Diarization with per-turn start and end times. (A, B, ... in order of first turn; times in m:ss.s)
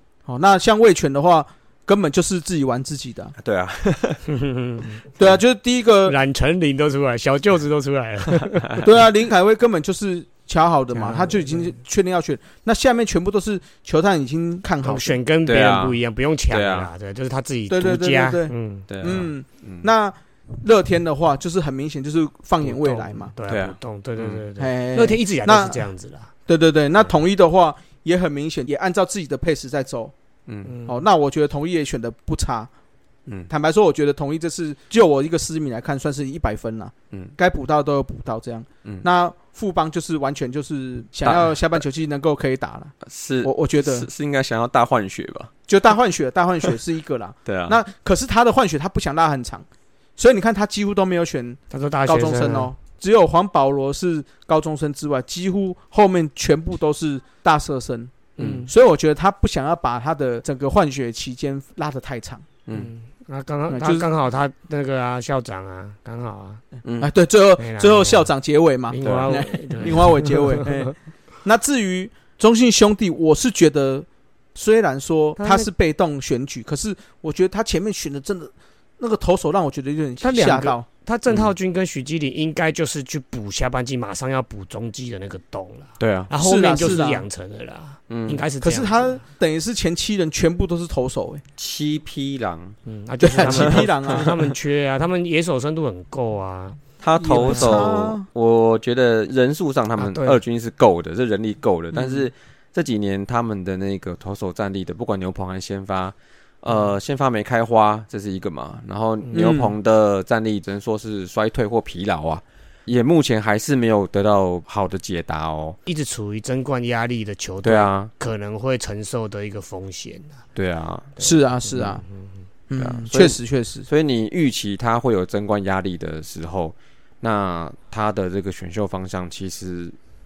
0:00.3-0:03.3 A
0:03.4-0:04.3 B
0:04.3-0:05.0 C
0:05.2-0:06.1 A
0:06.0-0:08.8 C
0:08.8-0:15.2 A
0:10.9-0:11.7 C
0:14.8-0:18.9 C
0:15.4-0:16.0 B
0:16.5-0:16.9 B
0:17.7-0:23.3 A
0:18.9-0:19.9 B
0:22.6-0:26.3 C
0:23.5-0:24.4 B
0:24.6-0:25.8 A
0:26.5-0:30.1 A
0:30.5-0:30.7 B
0:30.6-0:31.0 C
0:30.8-0:32.7 A
0:33.5-0:44.1 A
0:41.2-0:41.6 B
0:43.0-0:45.5 B
0:45.7-0:49.6 A
0:47.4-0:47.8 B
0:50.2-1:02.4 A
0:51.7-0:52.7 C
0:58.4-0:58.7 B
0:58.4-0:58.7 C
1:02.7-1:06.6 C
1:03.7-1:04.1 A
1:06.8-1:07.1 B
1:07.0-1:20.8 A
1:07.6-1:08.3 C
1:08.9-1:10.8 C
1:09.0-1:09.3 B
1:15.4-1:15.7 C
1:20.2-1:29.2 C
1:26.0-1:26.3 B
1:26.4-1:27.2 A
1:28.1-1:28.4 B
1:28.6-1:31.4 A
1:31.6-1:32.8 B
1:32.8-1:36.8 C
1:33.2-1:34.3 A
1:33.4-1:34.4 B
1:37.0-1:55.8 B
1:37.2-1:38.2 A
1:37.4-1:37.9 C
1:40.0-1:40.4 C
1:41.9-1:42.2 A
1:49.3-1:49.7 A
1:55.8-2:00.4 C
1:57.6-1:58.1 B
2:00.5-2:01.2 B
2:01.2-2:02.0 A
2:01.2-2:02.3 C
2:02.7-2:03.9 A
2:02.8-2:10.0 B